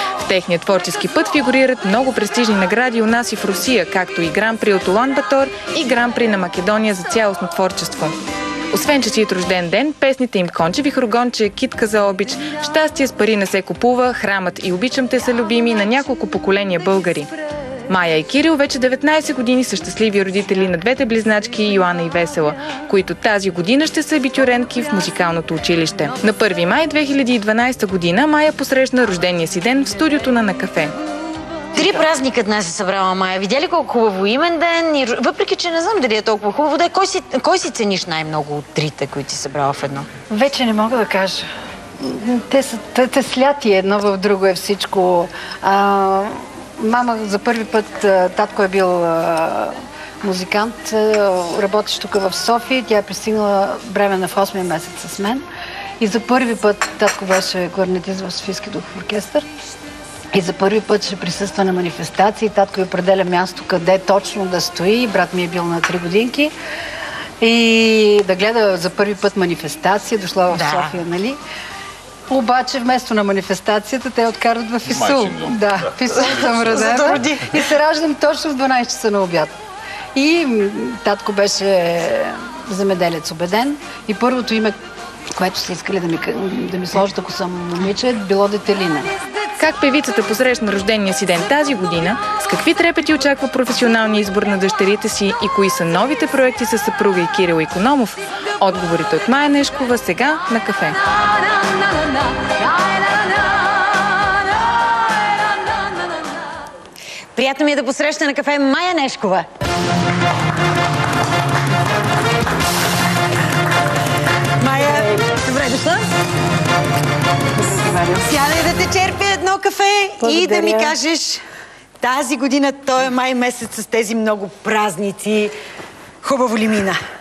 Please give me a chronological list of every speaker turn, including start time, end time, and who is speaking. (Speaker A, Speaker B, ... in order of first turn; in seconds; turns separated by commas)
Speaker A: 0.2-8.2, Speaker A: 8.7-17.3, Speaker A: 17.9-31.0, Speaker B: 31.7-40.1, Speaker C: 40.3-41.5, Speaker C: 42.0-55.5, Speaker C: 56.0-59.5, Speaker C: 60.3-66.5, Speaker C: 67.4-71.4, Speaker B: 70.5-71.0, Speaker C: 72.3-79.5, Speaker B: 76.5-77.5, Speaker C: 80.2-84.8, Speaker C: 85.3-89.1, Speaker A: 89.6-101.0, Speaker B: 107.3-109.5, Speaker B: 114.6-116.2, Speaker C: 117.5-118.3, Speaker B: 118.2-121.4, Speaker C: 120.2-121.0, Speaker B: 122.0-125.5, Speaker B: 126.2-127.0